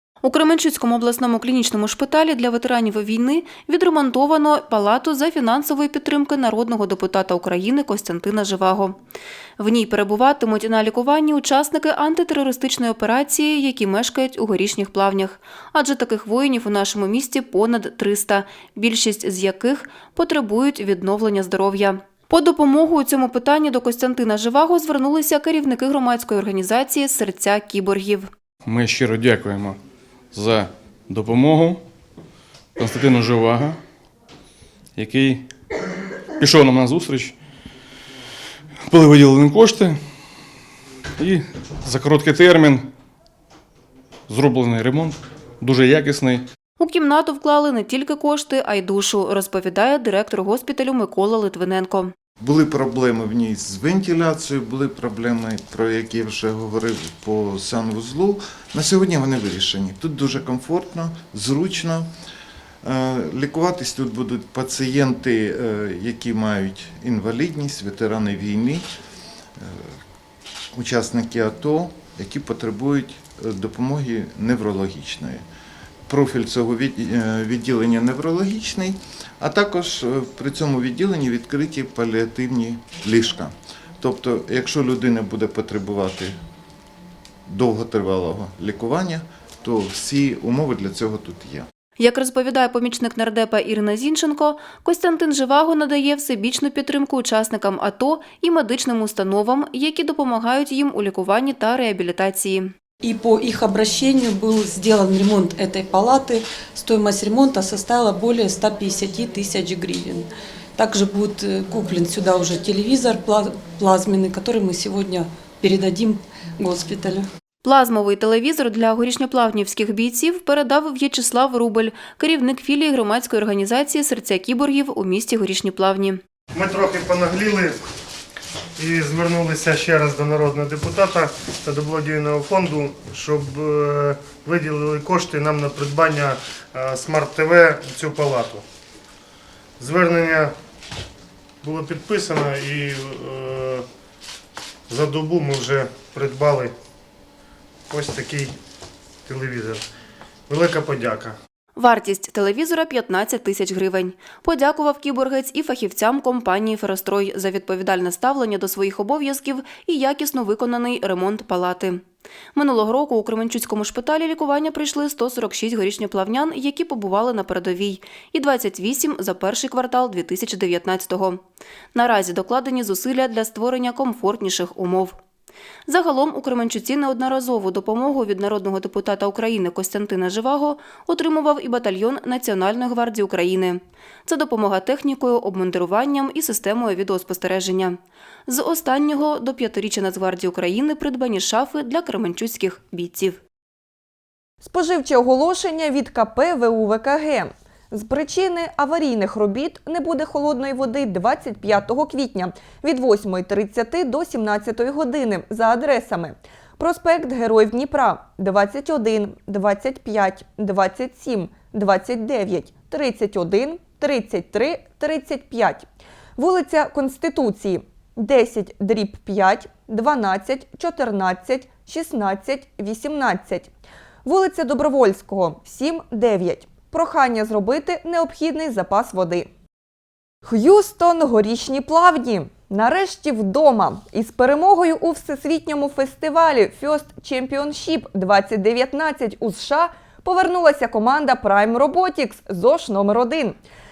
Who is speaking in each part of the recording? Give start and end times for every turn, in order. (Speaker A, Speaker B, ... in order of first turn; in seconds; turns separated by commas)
Speaker A: 0.2-8.9, Speaker A: 9.6-28.3, Speaker B: 28.6-29.8, Speaker B: 30.3-31.8, Speaker B: 32.8-33.8, Speaker B: 35.0-35.5, Speaker B: 36.4-37.4, Speaker B: 38.9-40.0, Speaker B: 41.2-42.9, Speaker B: 44.3-46.4, Speaker A: 46.8-52.1, Speaker C: 52.4-62.1, Speaker C: 62.8-68.8, Speaker C: 70.8-75.4, Speaker C: 76.1-86.3, Speaker C: 87.5-91.7, Speaker A: 92.0-102.7, Speaker D: 103.0-117.2, Speaker A: 117.6-126.2, Speaker E: 126.6-127.8, Speaker E: 128.8-138.6, Speaker E: 139.8-140.5, Speaker E: 141.6-143.8, Speaker E: 144.9-146.7, Speaker E: 147.9-148.5, Speaker E: 149.3-149.8, Speaker E: 150.5-151.3, Speaker A: 151.8-162.0, Speaker A: 162.6-171.4, Speaker A: 171.9-175.2, Speaker A: 175.9-193.4, Speaker F: 194.6-223.7, Speaker F: 224.2-229.5, Speaker F: 230.4-243.6